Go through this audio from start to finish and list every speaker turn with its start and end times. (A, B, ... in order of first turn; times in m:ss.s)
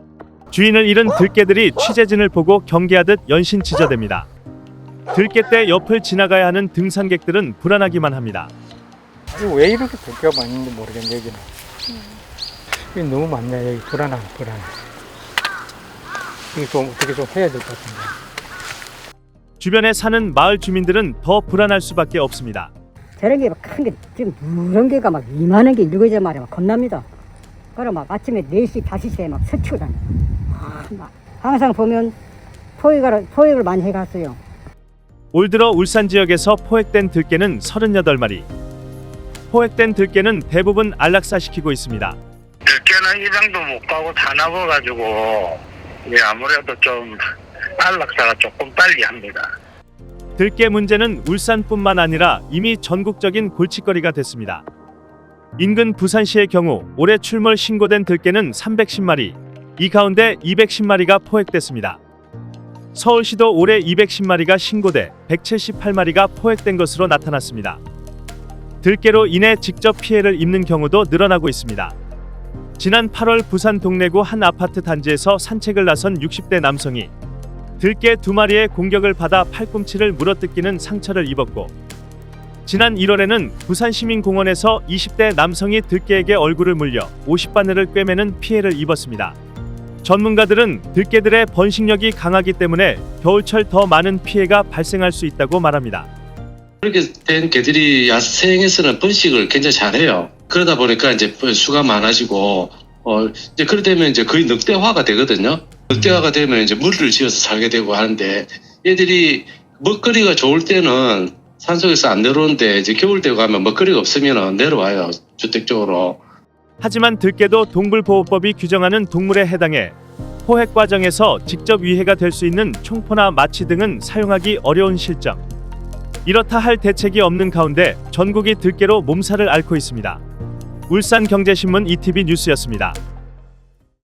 0:00.5-0:04.3 A
0:05.1-0:08.5 A
0:09.3-0:11.5 B
0:12.9-0:14.7 B
0:16.5-0:18.2 B
0:19.6-0:22.7 A
0:23.2-0:27.1 C
0:27.8-0:32.2 C
0:32.8-0:34.4 C
0:35.3-0:38.5 A
0:39.5-0:42.2 A
0:42.7-0:47.2 D
0:47.8-0:49.5 D
0:50.4-0:54.6 A
0:55.6-1:02.0 A
1:03.0-1:07.8 A
1:08.8-1:12.0 A
1:12.8-1:17.1 A
1:17.8-1:21.7 A
1:22.7-1:29.4 A
1:30.0-1:36.1 A
1:36.8-1:56.2 E
1:56.8-2:05.4 A
2:06.2-2:10.2 A
2:10.9-2:13.0 A